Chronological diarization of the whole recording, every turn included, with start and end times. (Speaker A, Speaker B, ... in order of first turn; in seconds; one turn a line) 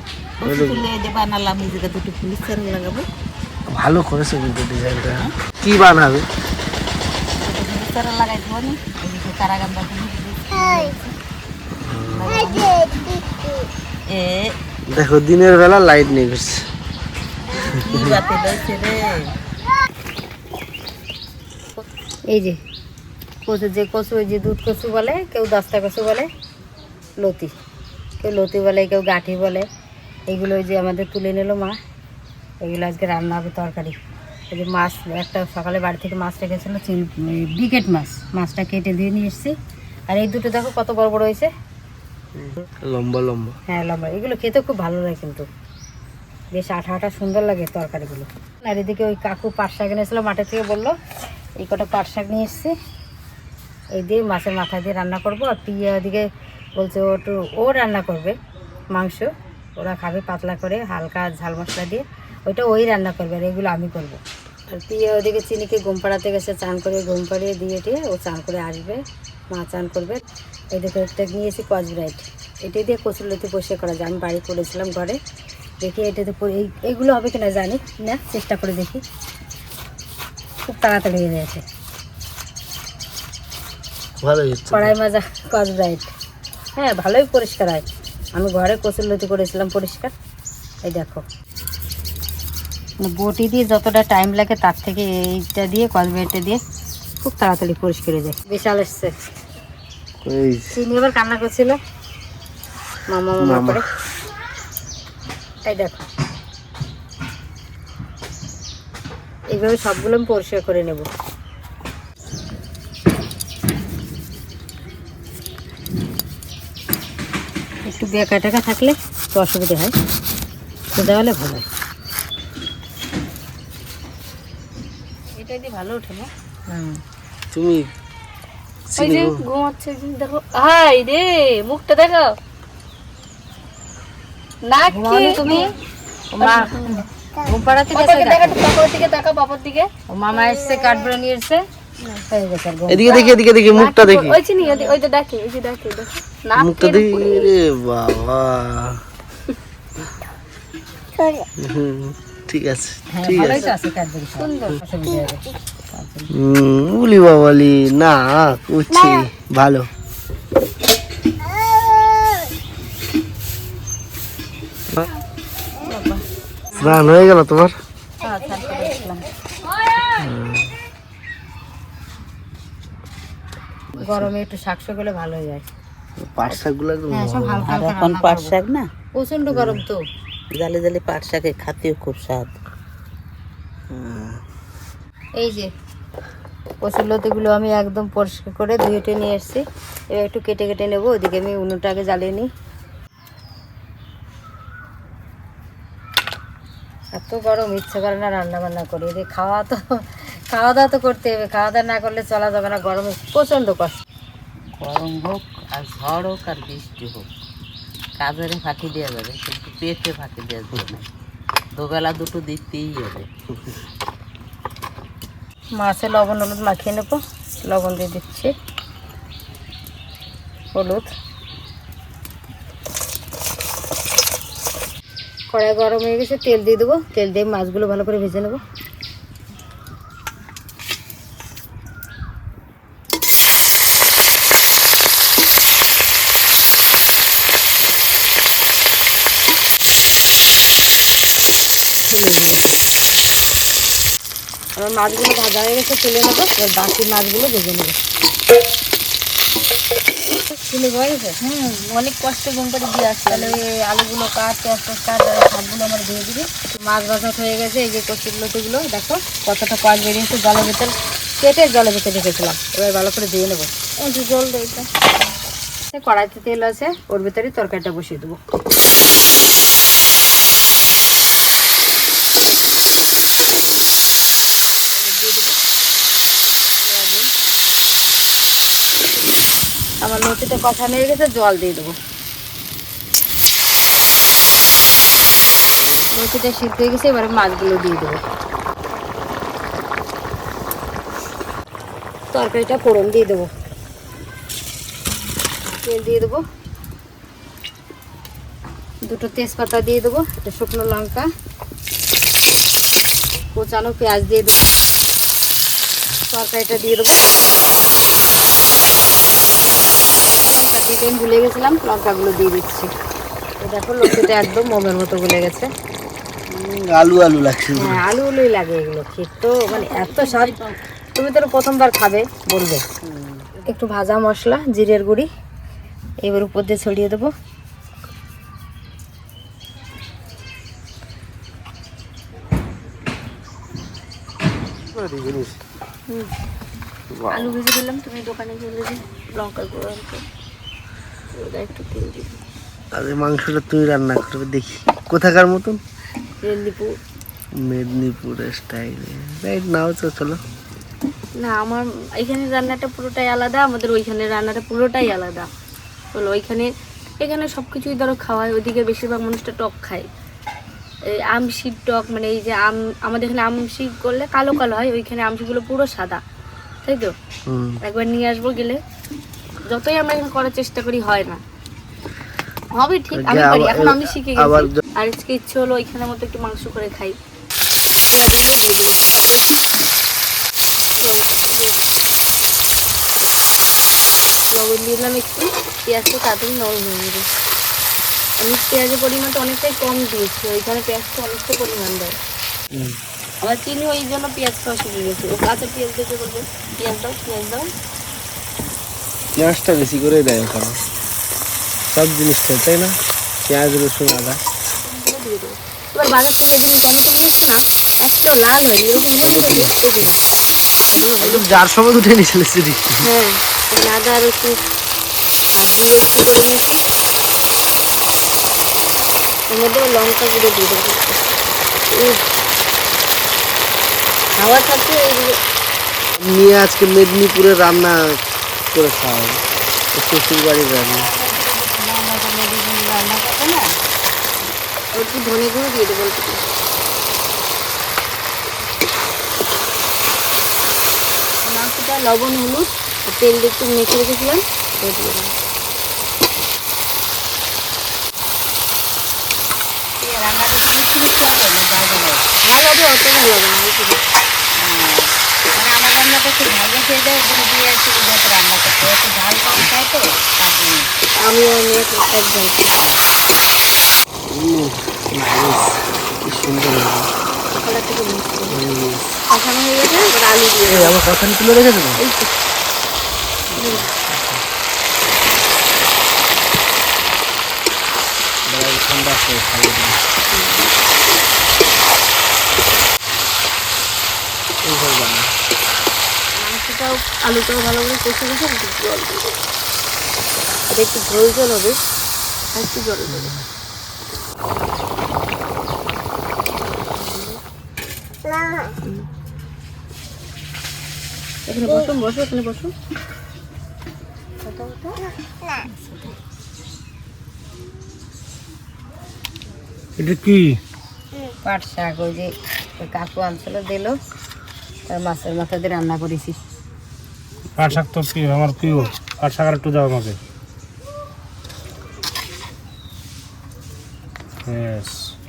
Speaker A: 0.4-3.1
Speaker B: 0.4-0.8
Speaker B: 3.7-6.3
Speaker A: 7.4-11.1
Speaker B: 11.8-12.4
Speaker A: 12.2-12.9
Speaker A: 14.1-14.5
Speaker B: 14.9-16.7
Speaker A: 17.5-19.1
Speaker B: 17.6-18.2
Speaker C: 21.8-22.6
Speaker C: 23.5-26.3
Speaker C: 27.2-27.5
Speaker C: 28.2-29.7
Speaker C: 30.3-31.8
Speaker C: 32.6-34.0
Speaker C: 34.5-39.5
Speaker C: 40.1-41.5
Speaker B: 42.4-43.6
Speaker C: 43.7-45.5
Speaker C: 46.5-50.9
Speaker C: 51.6-52.7
Speaker C: 54.0-56.3
Speaker C: 56.8-58.4
Speaker C: 59.0-64.2
Speaker C: 64.7-75.2
Speaker C: 75.8-79.0
Speaker C: 80.7-81.6
Speaker B: 84.2-84.9
Speaker C: 84.7-86.1
Speaker C: 86.8-90.1
Speaker C: 90.8-91.2
Speaker C: 93.0-96.6
Speaker C: 97.2-99.1
Speaker B: 100.2-100.8
Speaker C: 100.7-101.8
Speaker C: 103.1-103.8
Speaker B: 103.4-103.8
Speaker C: 105.6-106.0
Speaker C: 109.5-111.0
Speaker C: 117.8-119.9
Speaker C: 120.9-121.7
Speaker D: 125.4-126.3
Speaker C: 126.7-127.0
Speaker B: 127.5-127.9
Speaker B: 128.9-129.4
Speaker D: 129.0-132.3
Speaker C: 134.9-135.7
Speaker A: 135.3-135.6
Speaker C: 136.3-138.6
Speaker A: 138.7-139.2
Speaker D: 138.9-139.8
Speaker C: 140.1-141.6
Speaker C: 142.3-143.1
Speaker B: 142.9-144.4
Speaker A: 143.7-144.1
Speaker D: 143.8-146.2
Speaker C: 144.6-145.0
Speaker A: 146.4-147.0
Speaker B: 146.6-149.0
Speaker B: 151.6-153.7
Speaker C: 153.1-156.3
Speaker B: 156.3-159.9
Speaker C: 165.9-166.2
Speaker B: 166.8-167.8
Speaker C: 168.2-169.2
Speaker B: 170.2-170.7
Speaker B: 173.9-174.3
Speaker C: 174.0-175.7
Speaker B: 176.2-177.8
Speaker C: 176.5-178.6
Speaker A: 177.7-178.9
Speaker C: 179.2-180.0
Speaker B: 179.5-179.8
Speaker A: 180.5-182.5
Speaker B: 183.9-184.4
Speaker C: 185.4-185.7
Speaker C: 186.8-192.5
Speaker C: 197.2-204.0
Speaker A: 204.8-207.3
Speaker A: 208.2-211.1
Speaker A: 211.8-213.3
Speaker C: 215.8-218.5
Speaker C: 220.7-221.1
Speaker C: 225.5-228.6
Speaker C: 242.1-242.8
Speaker C: 244.8-248.0
Speaker C: 250.5-251.4
Speaker D: 251.5-253.5
Speaker C: 253.3-263.7
Speaker D: 264.1-264.9
Speaker C: 265.9-268.4
Speaker C: 276.8-277.3
Speaker C: 280.0-282.0
Speaker C: 286.1-288.2
Speaker C: 292.3-293.5
Speaker C: 295.8-296.4
Speaker C: 299.1-301.2
Speaker C: 303.6-304.6
Speaker C: 306.3-307.2
Speaker C: 310.4-312.9
Speaker C: 313.6-315.7
Speaker B: 316.5-318.0
Speaker C: 317.8-320.6
Speaker A: 319.7-320.8
Speaker C: 321.1-322.9
Speaker C: 323.6-325.3
Speaker C: 326.2-327.3
Speaker B: 334.9-335.6
Speaker B: 337.1-337.6
Speaker D: 337.3-340.2
Speaker D: 341.3-342.4
Speaker B: 342.9-345.8
Speaker D: 346.4-346.9
Speaker B: 347.6-350.4
Speaker D: 351.4-355.5
Speaker D: 356.1-356.7
Speaker D: 357.2-360.1
Speaker D: 361.1-366.2
Speaker D: 366.9-367.1
Speaker B: 367.5-367.8
Speaker D: 367.9-368.8
Speaker D: 369.7-371.4
Speaker D: 372.8-377.2
Speaker B: 373.1-374.8
Speaker D: 378.1-379.5
Speaker D: 381.0-381.8
Speaker D: 384.5-387.3
Speaker D: 388.4-392.2
Speaker B: 392.7-393.0
Speaker D: 393.4-397.7
Speaker B: 399.4-400.8
Speaker B: 401.9-402.9
Speaker B: 403.5-404.4
Speaker D: 404.8-410.1
Speaker B: 409.2-409.7
Speaker D: 410.9-411.4
Speaker B: 411.2-413.0
Speaker D: 413.0-414.6
Speaker D: 415.5-416.8
Speaker D: 419.5-421.3
Speaker D: 424.4-425.4
Speaker B: 426.2-428.2
Speaker B: 428.7-429.4
Speaker B: 429.9-431.1
Speaker C: 431.1-433.6
Speaker D: 434.9-436.4
Speaker D: 441.5-445.3
Speaker C: 450.0-452.2
Speaker D: 452.5-454.0
Speaker C: 454.6-460.9
Speaker D: 461.4-462.7
Speaker B: 464.3-467.1
Speaker D: 467.6-468.5
Speaker B: 468.5-469.1
Speaker D: 469.3-470.9
Speaker B: 470.7-472.0
Speaker D: 473.6-473.9
Speaker B: 473.6-474.4
Speaker B: 478.5-480.0
Speaker D: 480.3-480.7
Speaker B: 484.6-485.3
Speaker D: 486.4-489.4
Speaker D: 490.7-491.8
Speaker D: 492.5-493.3
Speaker D: 496.9-497.4
Speaker D: 501.5-502.7
Speaker C: 505.6-506.1
Speaker E: 510.0-510.6
Speaker C: 511.4-514.0
Speaker C: 514.9-516.4
Speaker E: 517.6-520.2
Speaker E: 524.5-525.1